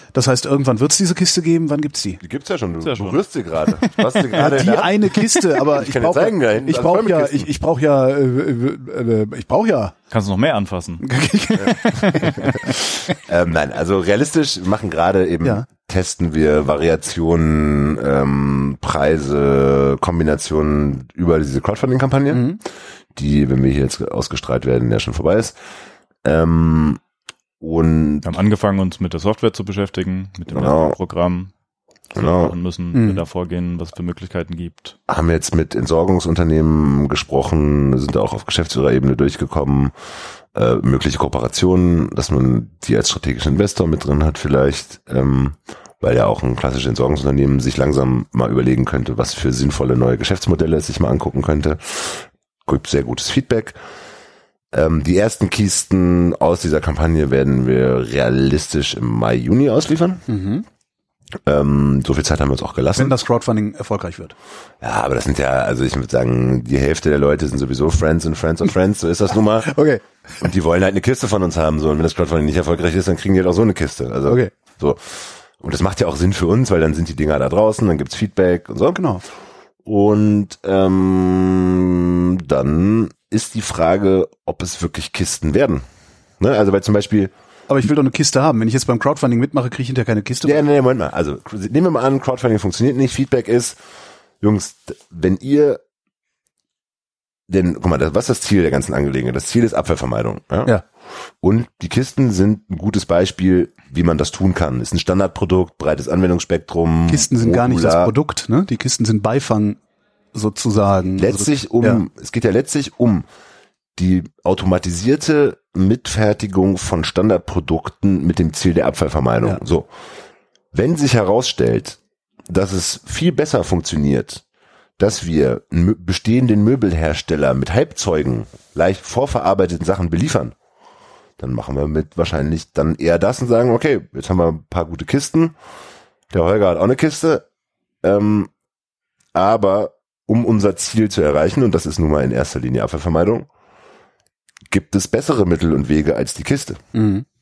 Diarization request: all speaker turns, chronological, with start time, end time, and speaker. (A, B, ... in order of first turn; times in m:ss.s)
0:00.1-0:02.2 A
0:02.2-0:07.5 B
0:02.8-0:03.2 C
0:04.3-0:09.9 A
0:10.1-0:11.0 C
0:11.0-0:13.1 A
0:11.6-0:22.4 B
0:22.3-0:22.6 A
0:23.1-0:25.6 B
0:26.2-0:27.0 B
0:27.6-0:28.3 B
0:28.2-0:31.5 C
0:30.5-0:31.0 B
0:32.1-0:32.5 B
0:32.2-0:35.0 C
0:32.9-0:33.2 A
0:35.1-0:39.9 B
0:40.5-0:53.8 B
0:54.7-1:00.2 B
1:00.3-1:00.6 A
1:01.4-1:03.2 B
1:03.0-1:04.3 A
1:04.8-1:09.8 B
1:09.6-1:10.0 A
1:10.4-1:19.0 B
1:14.2-1:14.5 A
1:18.9-1:19.2 A
1:19.8-1:25.8 B
1:26.4-1:27.3 B
1:27.7-1:30.6 A
1:30.4-1:33.8 B
1:34.4-1:35.8 B
1:37.5-1:40.7 B
1:41.4-1:48.1 B
1:47.1-1:49.8 A
1:50.3-1:52.0 A
1:51.2-1:53.2 B
1:54.0-1:59.9 B
2:00.7-2:04.4 B
2:05.0-2:10.5 B
2:11.4-2:15.5 B
2:16.3-2:17.4 B
2:18.0-2:18.5 B
2:19.3-2:23.5 B
2:24.7-2:26.8 B
2:26.9-2:27.2 A